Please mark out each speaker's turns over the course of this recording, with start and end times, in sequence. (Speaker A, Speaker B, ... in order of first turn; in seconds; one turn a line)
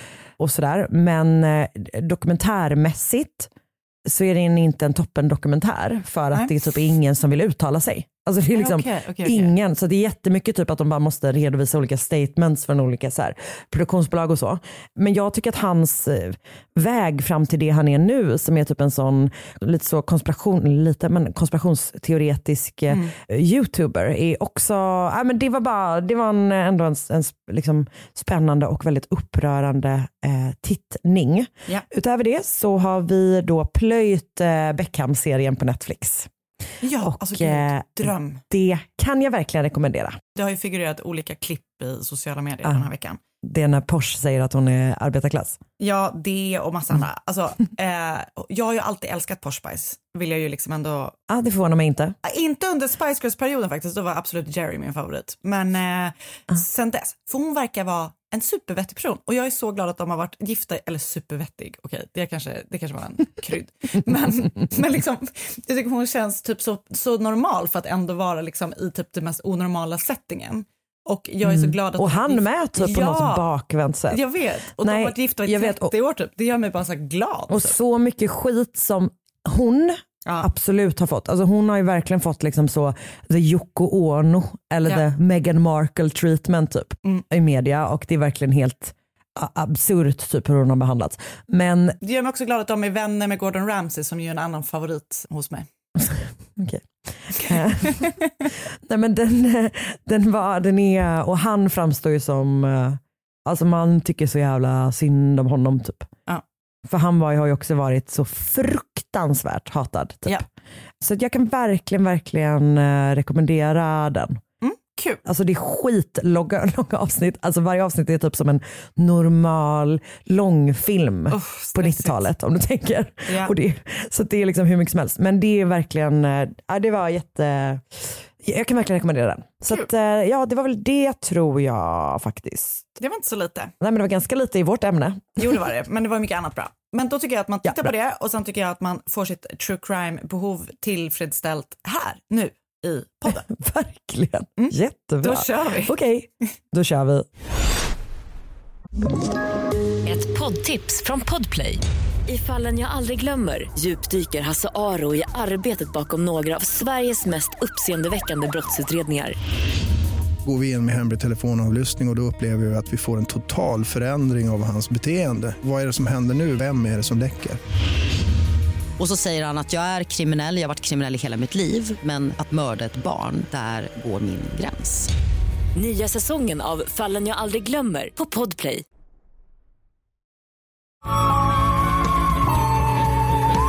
Speaker A: 0.4-3.5
Speaker A: 4.0-36.3
Speaker B: 8.5-9.5
Speaker B: 22.9-23.1
Speaker B: 36.8-38.4
Speaker A: 37.0-40.2
Speaker B: 40.3-43.2
Speaker A: 43.4-45.6
Speaker B: 45.8-51.1
Speaker A: 51.3-52.1
Speaker B: 52.2-73.5
Speaker A: 71.4-74.2
Speaker B: 74.1-77.8
Speaker A: 74.8-75.9
Speaker A: 77.5-92.0
Speaker B: 92.0-95.7
Speaker A: 96.0-98.1
Speaker B: 97.4-98.2
Speaker A: 98.8-106.1
Speaker A: 106.8-110.4
Speaker A: 111.0-114.4
Speaker B: 114.6-115.2
Speaker A: 115.2-132.9
Speaker B: 121.3-122.3
Speaker B: 123.2-123.5
Speaker B: 133.0-133.7
Speaker A: 133.8-135.4
Speaker B: 135.4-143.5
Speaker A: 137.6-137.9
Speaker A: 143.2-147.3
Speaker B: 144.6-145.9
Speaker C: 150.0-159.3
Speaker D: 160.4-167.6
Speaker E: 169.0-175.1
Speaker C: 175.8-178.8